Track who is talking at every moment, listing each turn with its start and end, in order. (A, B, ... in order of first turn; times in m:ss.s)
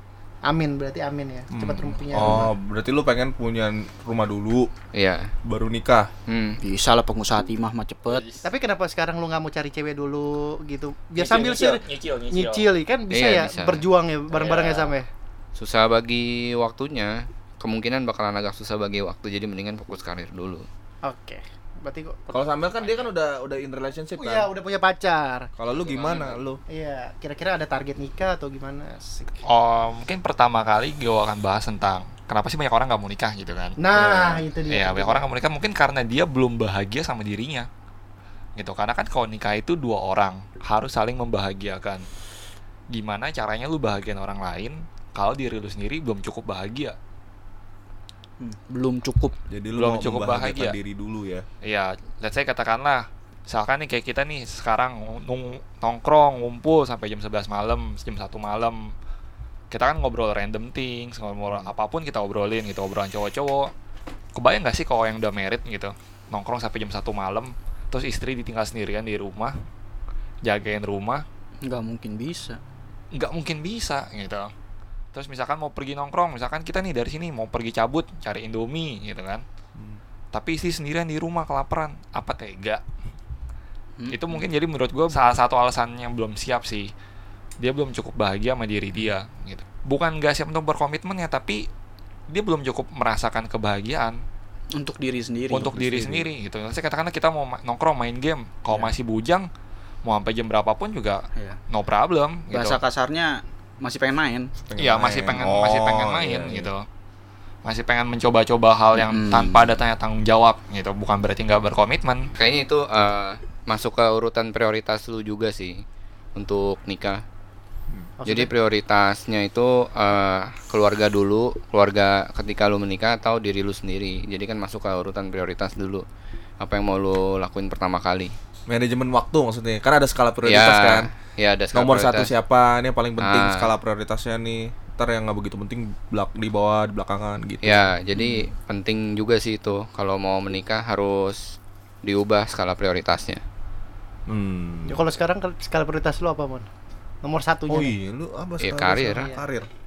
0:00.4-0:02.5 A
0:01.5-0:04.7 B
0:02.2-0:02.5 C
0:04.9-0:05.3 D
0:05.4-0:06.1 B
0:06.3-0:06.6 D
0:06.6-0:08.2 C
0:08.1-0:08.4 E
0:08.4-0:15.1 A
0:11.2-0:12.7 E
0:13.1-0:13.8 D
0:14.4-0:14.8 E
0:15.5-0:20.6 D
0:21.0-0:22.4 A
0:22.3-0:24.5 B
0:24.2-0:25.5 A
0:25.6-0:26.6 B
0:25.8-0:26.3 D
0:26.7-0:29.4 A
0:29.4-0:37.7 E
0:33.8-0:35.2 A
0:38.6-0:42.0 E
0:42.9-0:46.9 E
0:48.4-0:49.4 C
0:49.5-0:51.4 B
0:49.7-0:50.8 E
0:51.6-0:58.9 E
0:59.7-1:03.7 E
1:04.3-1:09.6 E
1:10.4-1:11.2 E
1:11.6-1:12.6 C
1:13.1-1:14.5 E
1:15.1-1:19.4 E
1:19.8-1:20.0 B
1:20.3-1:22.8 E
1:24.0-1:24.4 C
1:24.1-1:26.9 E
1:27.6-1:31.6 E
1:32.3-1:34.2 E
1:34.7-1:36.2 C
1:35.5-1:39.5 E
1:38.7-1:38.9 C
1:40.0-1:42.8 E
1:42.5-1:44.5 C
1:44.6-1:46.7 B
1:44.8-1:46.8 E
1:47.6-1:52.3 E
1:48.9-1:49.8 C
1:52.4-1:55.8 D
1:56.4-1:57.2 D
1:58.2-1:58.5 A
1:58.2-2:06.0 D
2:06.6-2:08.3 D
2:08.7-2:11.1 B
2:10.4-2:12.3 D
2:11.7-2:17.9 B
2:13.2-2:13.7 D
2:17.6-2:23.4 D
2:18.1-2:18.4 C
2:24.3-2:25.0 B
2:24.9-2:26.7 A
2:27.2-2:27.9 A
2:27.7-2:29.7 B
2:28.6-2:29.4 D